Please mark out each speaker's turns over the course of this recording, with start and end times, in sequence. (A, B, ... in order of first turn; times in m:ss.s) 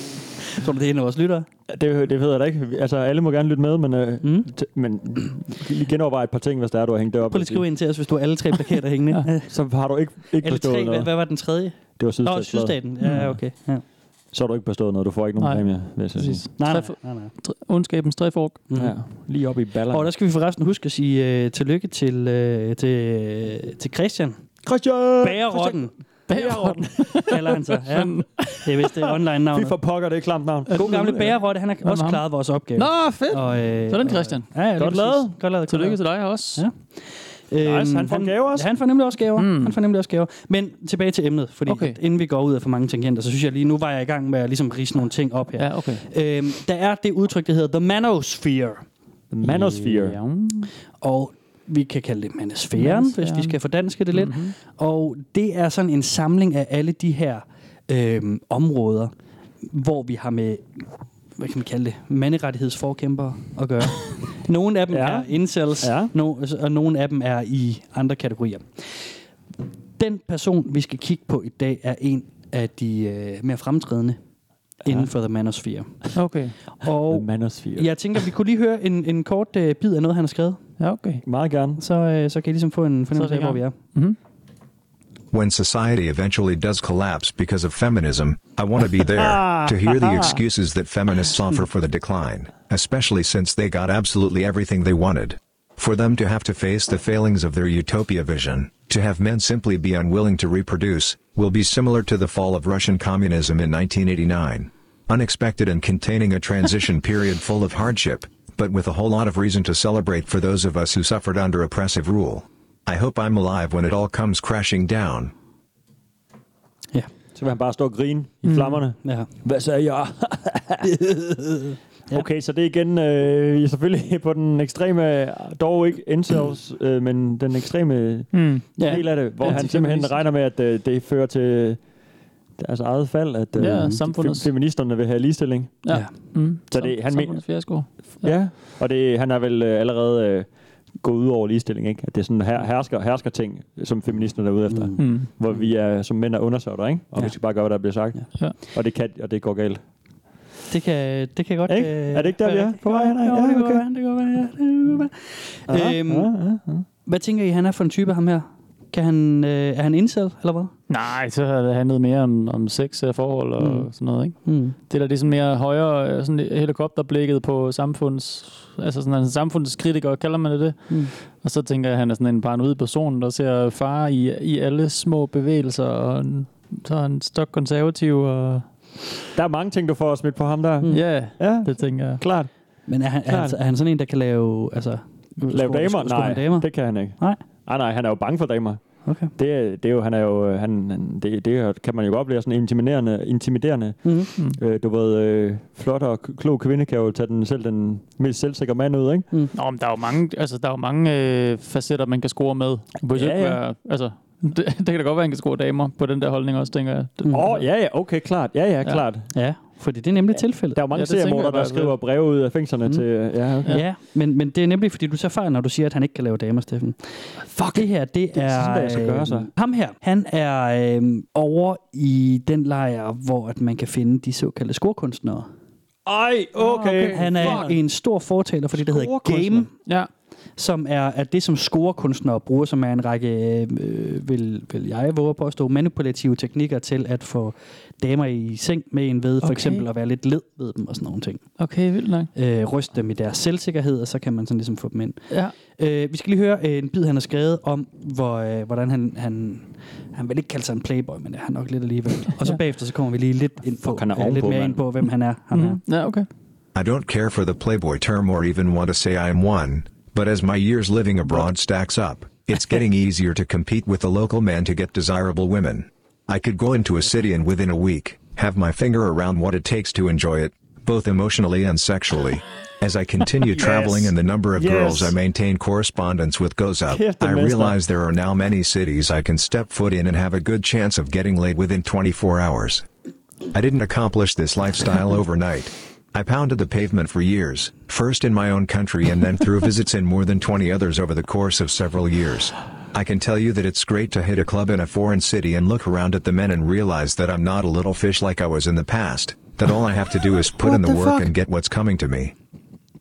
0:00.4-0:01.5 A
0:01.7-0:07.6 B
0:04.2-0:04.5 A
0:07.3-0:09.5 A
0:09.5-0:11.1 B
0:10.4-0:13.8 A
0:12.0-0:13.4 B
0:13.0-0:13.3 C
0:14.3-0:16.4 B
0:15.4-0:18.6 C
0:16.6-0:17.3 A
0:18.7-0:19.3 A
0:18.7-0:20.1 B
0:19.9-0:24.6 A
0:24.6-0:27.1 B
0:25.2-0:25.9 A
0:26.3-0:28.7 C
0:27.2-0:29.8 A
0:29.5-0:31.0 B
0:30.7-0:48.8 A
0:30.7-0:32.2 C
0:32.7-0:34.5 C
0:34.8-0:35.3 B
0:35.6-0:36.6 C
0:37.6-0:38.7 B
0:39.4-0:39.8 C
0:41.7-0:42.0 C
0:45.6-0:46.0 C
0:49.3-0:50.2 B
0:49.4-0:50.7 C
0:51.0-1:00.8 A
0:52.8-0:53.6 C
0:54.1-0:54.5 C
1:01.4-1:09.1 A
1:04.9-1:06.1 B
1:10.0-1:14.2 A
1:14.8-1:16.1 A
1:16.1-1:16.6 C
1:16.8-1:20.6 A
1:17.1-1:17.9 B
1:20.8-1:21.2 C
1:21.2-1:21.8 B
1:21.8-1:23.8 A
1:23.1-1:24.2 C
1:25.3-1:55.3 D
1:29.1-1:30.4 B
1:57.3-2:00.9 B
1:58.4-1:58.8 C
1:59.0-1:59.3 A
2:00.8-2:02.2 A
2:02.1-2:11.9 B
2:08.3-2:10.2 C
2:08.8-2:09.6 A
2:12.6-2:29.8 B
2:13.6-2:14.5 C
2:13.6-2:14.0 A
2:15.8-2:18.5 C
2:24.7-2:25.6 A
2:25.0-2:25.3 C
2:30.7-2:36.3 A
2:31.7-2:33.8 B
2:35.7-2:36.8 B
2:37.0-2:40.7 A
2:40.9-2:58.7 C
2:43.6-2:43.9 A
2:44.4-2:44.8 A
2:59.3-3:02.5 B
3:00.9-3:02.3 C
3:02.9-3:07.4 A
3:03.2-3:03.6 B
3:05.5-3:19.3 B
3:09.0-3:09.3 A
3:14.0-3:14.3 A
3:19.5-3:27.6 C
3:23.1-3:23.6 B
3:27.2-3:27.5 A
3:27.3-3:29.3 B
3:29.3-3:30.8 A
3:30.7-3:33.8 B
3:30.9-3:32.0 C
3:33.6-3:45.5 A
3:37.4-3:39.5 B
3:46.0-3:47.7 B
3:46.6-3:47.7 C
3:47.1-3:49.7 A
3:48.7-3:49.7 B
3:50.6-4:01.4 A
3:59.4-3:59.8 C
4:01.6-4:02.3 C
4:02.3-4:15.8 A
4:13.8-4:14.8 B
4:15.5-4:16.3 C
4:16.7-4:42.8 D
4:33.5-4:35.1 B
4:36.9-4:37.8 B
4:43.5-5:02.3 D
5:00.6-5:01.3 B